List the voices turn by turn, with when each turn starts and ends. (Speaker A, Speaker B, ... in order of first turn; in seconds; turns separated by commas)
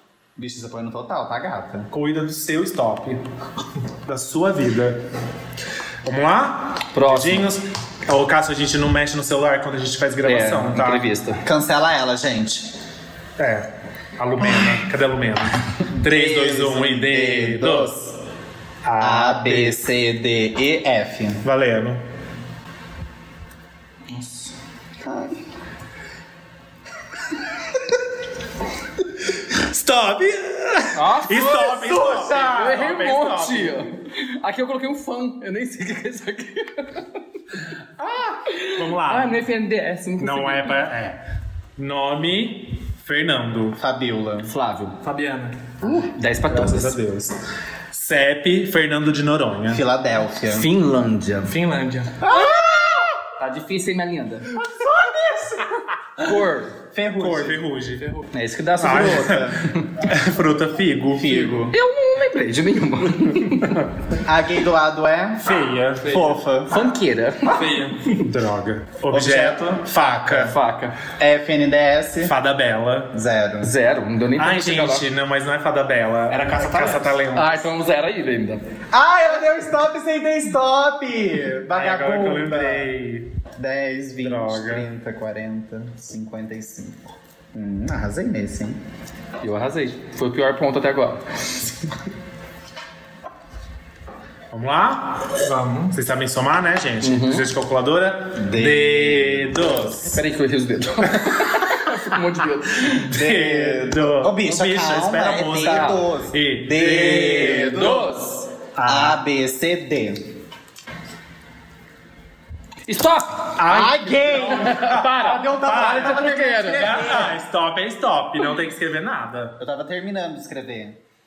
Speaker A: 0.4-1.9, Speaker B: 1.9-3.2, Speaker B: 4.1-5.0, Speaker B: 6.0-11.1, Speaker C: 6.9-7.5, Speaker C: 10.2-11.4, Speaker A: 11.4-12.7, Speaker B: 13.4-13.7, Speaker B: 14.2-17.9, Speaker A: 16.0-18.1, Speaker B: 18.8-19.8, Speaker A: 19.0-21.4, Speaker B: 21.4-22.0, Speaker C: 24.1-24.5, Speaker A: 25.0-25.4, Speaker B: 29.4-33.9, Speaker C: 30.9-37.1, Speaker B: 38.0-39.4, Speaker C: 38.3-40.8, Speaker B: 40.2-41.2, Speaker B: 41.8-43.8, Speaker A: 43.8-44.5, Speaker C: 44.4-45.0, Speaker D: 45.0-45.7, Speaker C: 45.9-47.0, Speaker B: 46.5-47.4, Speaker B: 47.9-49.8, Speaker A: 49.7-50.7, Speaker C: 50.5-51.5, Speaker D: 51.5-52.2, Speaker A: 52.2-53.2, Speaker C: 53.4-54.5, Speaker A: 54.6-55.7, Speaker C: 56.2-56.8, Speaker A: 56.9-57.6, Speaker B: 57.2-58.1, Speaker C: 58.3-59.9, Speaker B: 58.8-61.5, Speaker A: 58.8-59.6, Speaker A: 61.1-61.8, Speaker C: 61.7-63.8, Speaker A: 64.2-66.9, Speaker B: 65.4-66.2, Speaker D: 66.0-66.3, Speaker C: 66.7-67.6, Speaker D: 67.5-68.2, Speaker B: 68.2-70.6, Speaker A: 69.1-70.4, Speaker C: 70.3-71.0, Speaker A: 71.2-72.3, Speaker B: 72.2-73.1, Speaker A: 73.1-73.7, Speaker C: 73.6-75.0, Speaker B: 74.4-77.7, Speaker D: 76.3-77.2, Speaker C: 77.3-78.6, Speaker A: 78.9-82.9, Speaker B: 81.7-83.3, Speaker A: 83.6-88.8, Speaker B: 84.2-84.9, Speaker C: 89.4-91.2, Speaker B: 94.5-100.2, Speaker D: 95.4-95.9, Speaker C: 97.0-97.5, Speaker A: 98.4-99.8, Speaker C: 100.0-103.0, Speaker B: 101.2-101.5, Speaker B: 102.9-108.0, Speaker A: 103.0-108.1, Speaker C: 105.6-106.0, Speaker C: 107.3-108.5, Speaker B: 108.8-109.2, Speaker A: 108.8-110.2, Speaker C: 112.9-113.6, Speaker B: 113.6-119.6, Speaker A: 113.7-117.3, Speaker C: 114.3-117.2, Speaker A: 119.6-121.0